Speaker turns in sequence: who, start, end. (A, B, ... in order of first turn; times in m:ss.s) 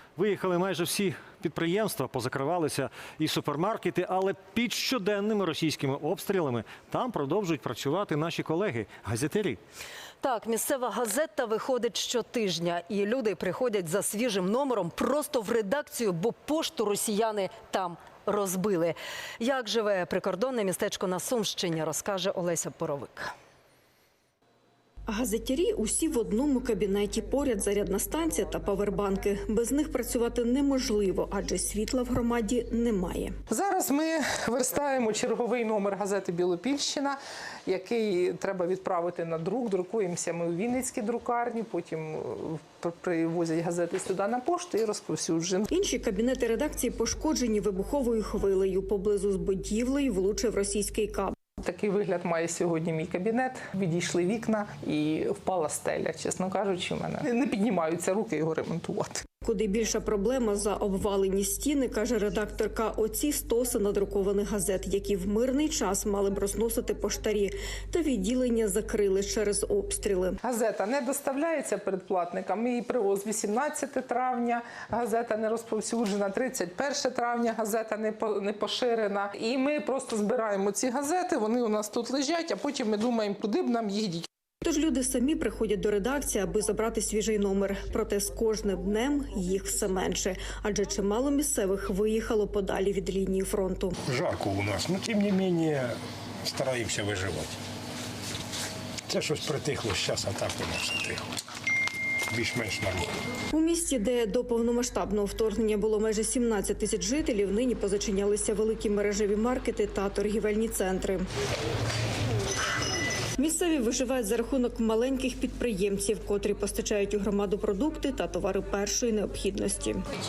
0:00.2-0:09.6 A
0:10.2-0:23.3 B
0:25.1-0:33.4 C
0:33.5-0:45.7 D
0:45.7-0:51.4 C
0:51.6-0:59.2 D
0:59.4-1:10.4 C
1:10.4-1:24.3 D
1:24.6-1:34.0 C
1:34.0-1:37.6 E
1:39.1-1:41.3 E
1:42.3-1:43.1 E
1:43.5-1:51.3 C
1:53.4-2:00.0 C